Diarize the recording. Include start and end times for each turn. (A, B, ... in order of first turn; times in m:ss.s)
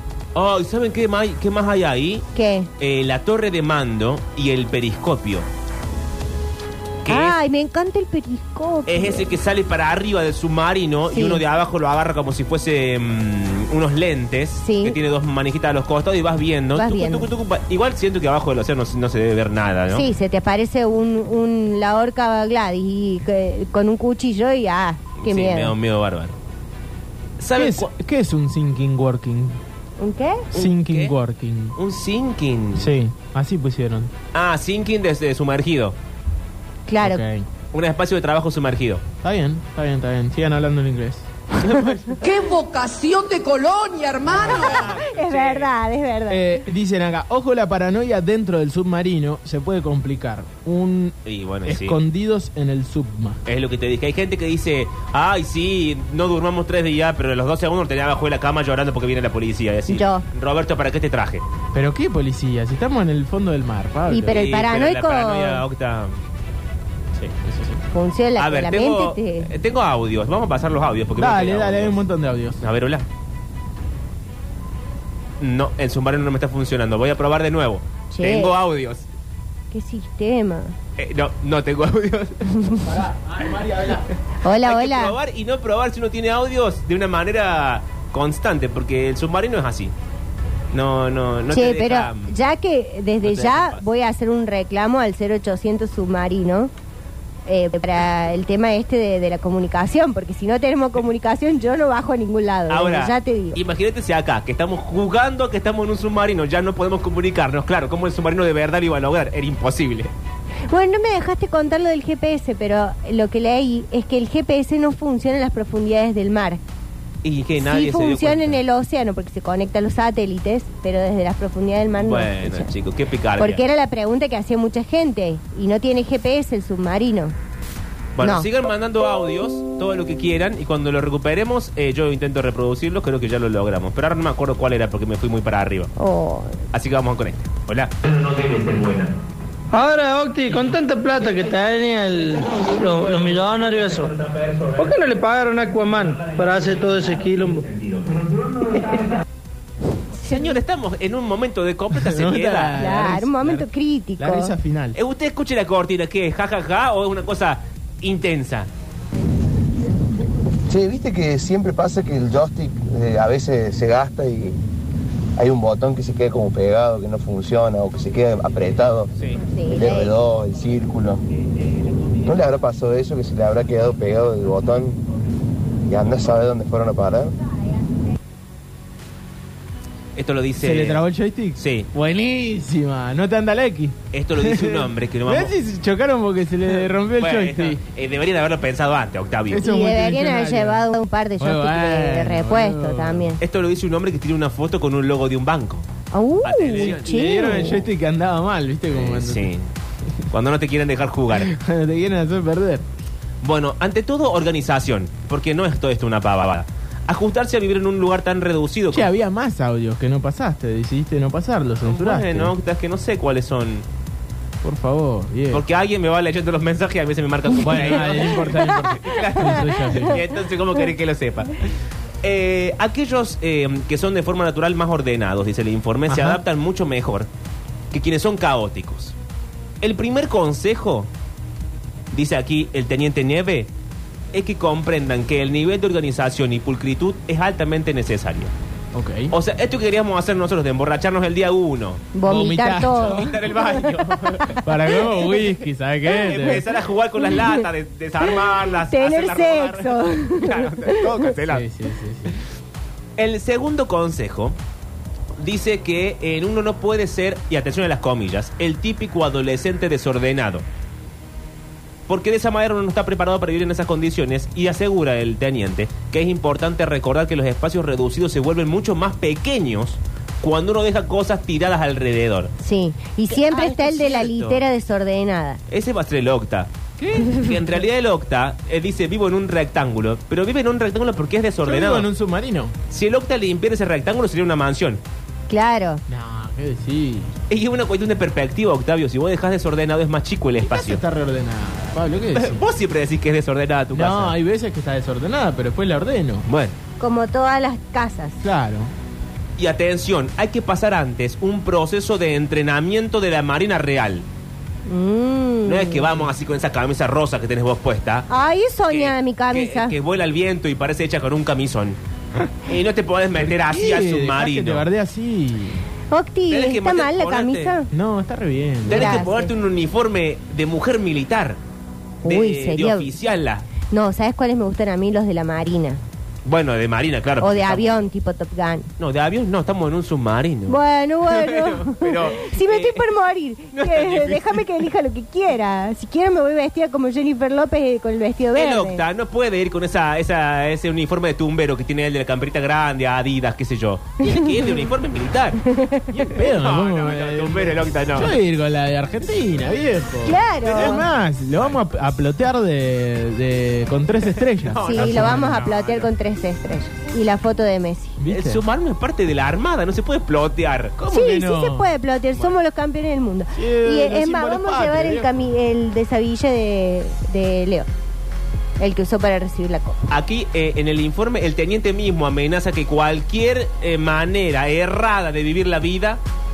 0:00.3-0:02.3 A
0:02.3-0:02.7 B
0:02.8-0:05.5 A
0:07.0-0:07.3 A
0:07.1-0:09.3 B
0:08.9-0:20.1 A
0:11.1-0:11.4 B
0:14.6-0:15.0 B
0:16.8-0:17.3 B
0:19.9-0:25.7 B
0:25.2-0:26.4 A
0:27.4-0:27.9 A
0:27.6-0:29.6 C
0:30.0-0:30.5 B
0:30.5-0:31.1 A
0:30.5-0:31.8 C
0:31.8-0:32.9 A
0:32.7-0:34.1 C
0:34.3-0:36.0 A
0:36.9-0:37.2 B
0:37.0-0:37.5 C
0:37.7-0:39.0 A
0:39.2-0:41.3 C
0:41.6-0:42.2 A
0:42.2-0:44.5 D
0:44.3-0:45.7 A
0:44.3-0:46.5 B
0:46.3-0:53.4 C
0:51.2-0:52.0 A
0:53.4-1:01.4 A
0:59.9-1:00.2 B
1:01.7-1:04.4 C
1:04.1-1:05.6 B
1:04.3-1:06.2 A
1:07.1-1:07.8 C
1:07.9-1:09.5 B
1:08.4-1:12.0 A
1:11.2-1:12.6 C
1:12.6-1:13.0 A
1:15.4-1:19.1 A
1:18.1-1:18.5 B
1:19.7-1:20.7 B
1:21.0-1:22.5 A
1:22.5-1:22.8 B
1:22.8-1:24.1 C
1:24.4-1:25.1 B
1:24.6-1:29.9 A
1:30.7-1:32.3 A
1:31.5-1:36.7 B
1:33.2-1:33.8 A
1:37.4-1:43.6 B
1:42.7-1:50.1 A
1:50.7-1:56.6 B
1:57.2-1:58.6 A
1:57.6-2:02.7 B
2:02.0-2:03.6 A
2:03.4-2:07.3 B
2:08.2-2:15.9 A
2:08.2-2:08.5 B
2:16.0-2:16.6 B
2:16.7-2:19.1 A
2:19.7-2:24.1 E
2:22.9-2:24.9 A
2:24.8-2:27.7 E
2:26.0-2:29.2 A
2:30.2-2:33.0 A
2:30.2-2:30.5 B
2:31.9-2:35.0 C
2:32.8-2:34.5 B
2:35.0-2:38.7 A
2:40.7-2:44.6 F
2:45.4-2:49.1 F
2:49.5-2:50.1 B
2:49.7-2:51.2 F
2:52.2-2:55.0 F
2:55.8-2:57.3 F
3:00.2-3:01.0 A
3:00.6-3:07.8 C
3:01.6-3:01.9 A
3:04.1-3:05.5 A
3:06.7-3:09.6 A
3:09.5-3:10.8 C
3:09.6-3:13.4 B
3:11.4-3:13.4 C
3:13.4-3:15.9 A
3:16.1-3:17.8 B
3:16.4-3:17.8 A
3:16.7-3:19.5 C
3:18.9-3:19.7 A
3:20.3-3:21.5 A
3:21.4-3:22.9 C
3:23.4-3:29.1 A
3:28.9-3:32.5 C
3:31.8-3:33.8 A
3:34.6-3:35.6 C
3:35.5-3:41.7 A
3:37.6-3:40.2 C
3:42.2-3:47.3 A
3:46.1-3:46.4 C
3:47.9-3:49.2 A
3:49.8-3:51.1 A
3:52.1-3:53.7 A
3:54.3-3:58.5 A
3:58.9-3:59.3 C
3:59.3-4:02.1 A
4:02.1-4:04.4 B
4:02.2-4:03.3 C
4:02.9-4:04.6 A
4:04.6-4:06.6 C
4:06.1-4:06.6 B
4:06.2-4:11.7 A
4:07.2-4:07.6 B
4:08.2-4:11.2 B
4:11.4-4:12.4 C
4:13.2-4:14.6 A
4:15.4-4:20.6 A
4:22.1-4:32.5 A
4:32.6-4:35.6 B
4:33.3-4:34.6 A
4:35.7-4:42.1 A
4:41.6-4:42.8 C
4:42.9-4:45.0 A
4:45.5-4:46.0 B
4:46.1-4:47.3 C
4:47.5-4:51.0 A
4:50.6-4:52.6 C
4:52.3-4:54.3 A
4:53.9-4:56.4 C
4:56.5-4:56.8 A
4:57.0-4:58.4 B
4:58.4-4:58.9 C
4:59.6-5:04.3 A
5:04.8-5:06.1 B
5:05.6-5:08.3 A
5:08.3-5:10.0 B
5:08.9-5:12.0 A
5:12.6-5:14.8 A
5:13.4-5:15.8 C
5:16.1-5:17.9 B
5:16.5-5:17.8 A
5:17.9-5:19.2 C
5:18.8-5:21.6 A
5:18.9-5:19.5 B
5:22.2-5:23.1 B
5:22.2-5:23.7 A
5:23.9-5:26.0 B
5:26.4-5:28.1 A
5:27.4-5:28.9 B
5:29.0-5:33.1 A
5:30.7-5:39.0 B
5:33.7-5:34.6 A
5:38.5-5:45.6 A
5:44.3-5:44.6 B
5:45.7-5:46.1 B
5:46.1-5:55.6 C
5:46.4-5:48.4 A
5:50.2-5:51.1 B
5:50.6-5:51.8 A
5:54.5-5:56.1 A
5:54.8-5:58.2 B
5:58.2-5:58.6 C
5:58.3-6:01.0 A
6:01.0-6:01.9 C
6:01.1-6:07.9 B
6:03.5-6:05.5 C
6:08.8-6:10.0 B
6:10.1-6:16.2 A